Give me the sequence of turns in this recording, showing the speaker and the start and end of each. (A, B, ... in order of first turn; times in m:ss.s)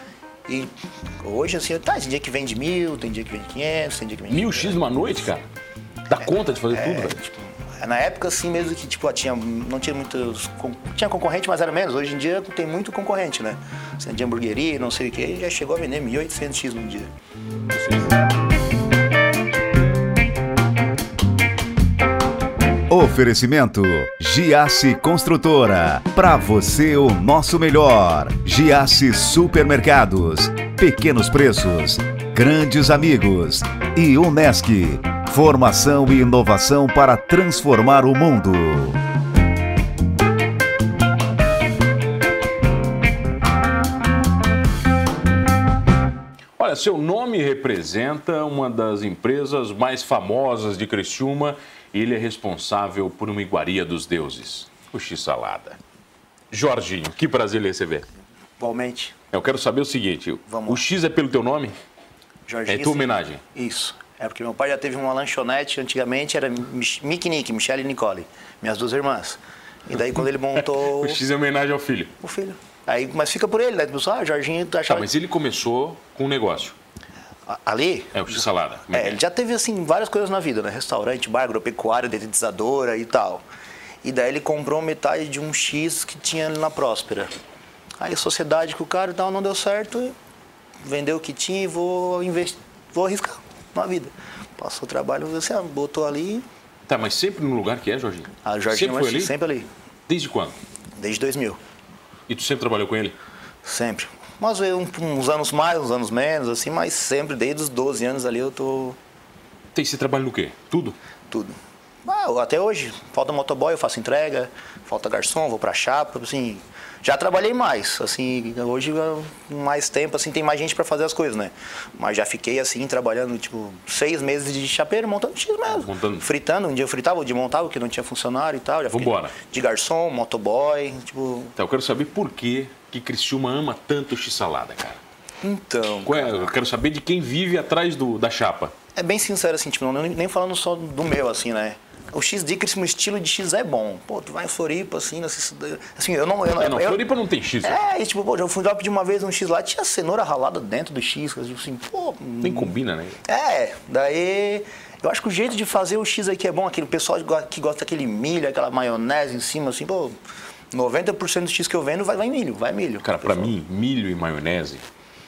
0:01.2-0:04.8 A
0:04.3-0:05.4 B
0:06.1-0:07.2 B
0:06.2-0:17.1 A
0:22.9-0:39.0 C
0:46.6-0:55.8 B
0:56.5-0:58.0 B
0:58.6-0:59.2 A
0:59.3-1:01.8 B
1:00.5-1:00.8 A
1:02.5-1:11.2 A
1:02.7-1:03.4 B
1:10.6-1:12.1 B
1:12.2-1:15.1 A
1:14.9-1:16.8 B
1:17.5-1:23.4 A
1:18.2-1:19.2 B
1:24.0-1:27.3 A
1:28.0-1:30.1 A
1:30.8-1:36.4 A
1:36.9-1:39.3 B
1:38.4-1:39.7 A
1:40.1-1:40.6 B
1:41.0-1:41.6 A
1:42.3-1:43.2 B
1:43.6-1:49.0 A
1:49.7-1:51.0 B
1:51.3-2:11.6 A
2:05.7-2:06.3 B
2:08.9-2:09.4 B
2:11.6-2:15.0 B
2:15.4-2:16.5 A
2:16.0-2:18.7 B
2:19.0-2:27.0 A
2:26.6-2:27.9 B
2:27.6-2:40.2 A
2:32.4-2:33.2 B
2:40.7-2:43.5 A
2:43.0-2:44.8 B